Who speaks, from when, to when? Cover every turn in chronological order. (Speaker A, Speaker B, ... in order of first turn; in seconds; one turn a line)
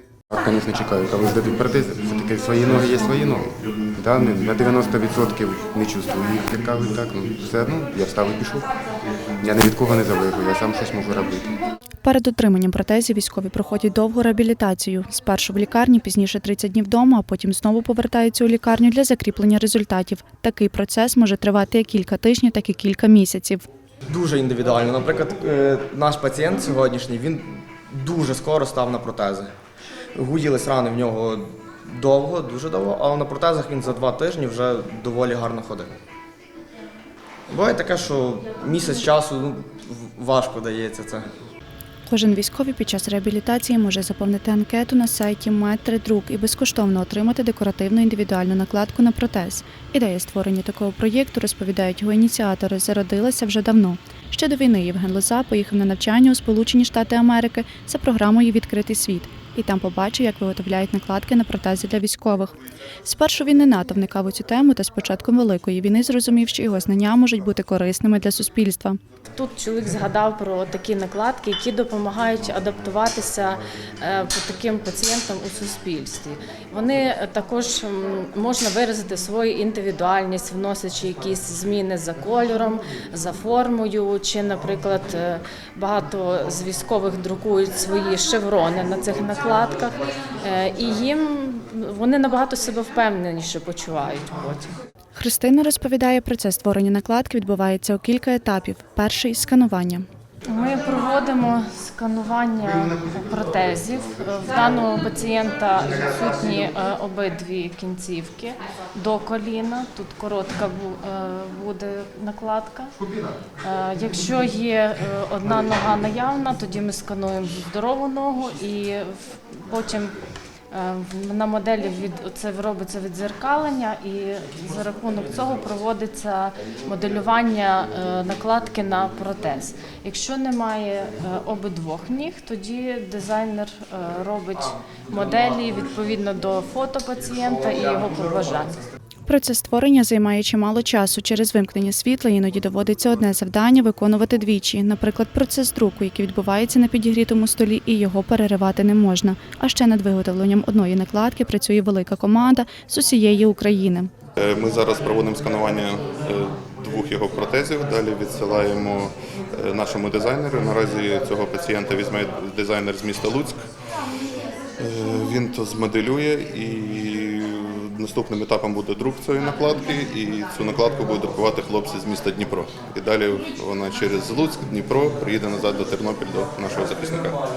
Speaker A: 0.3-8.7
Speaker A: 9.4-11.5
Speaker B: 12.0-23.6
Speaker C: 24.1-29.5
Speaker C: 30.1-35.9
Speaker C: 37.5-41.3
Speaker B: 42.0-62.5
Speaker B: 63.0-69.0
Speaker D: 69.4-94.7
Speaker B: 95.2-100.0
Speaker D: 100.5-112.9
Speaker D: 113.6-120.2
Speaker D: 120.7-138.8
Speaker B: 139.3-154.1
Speaker E: 154.3-163.6
Speaker E: 164.8-177.4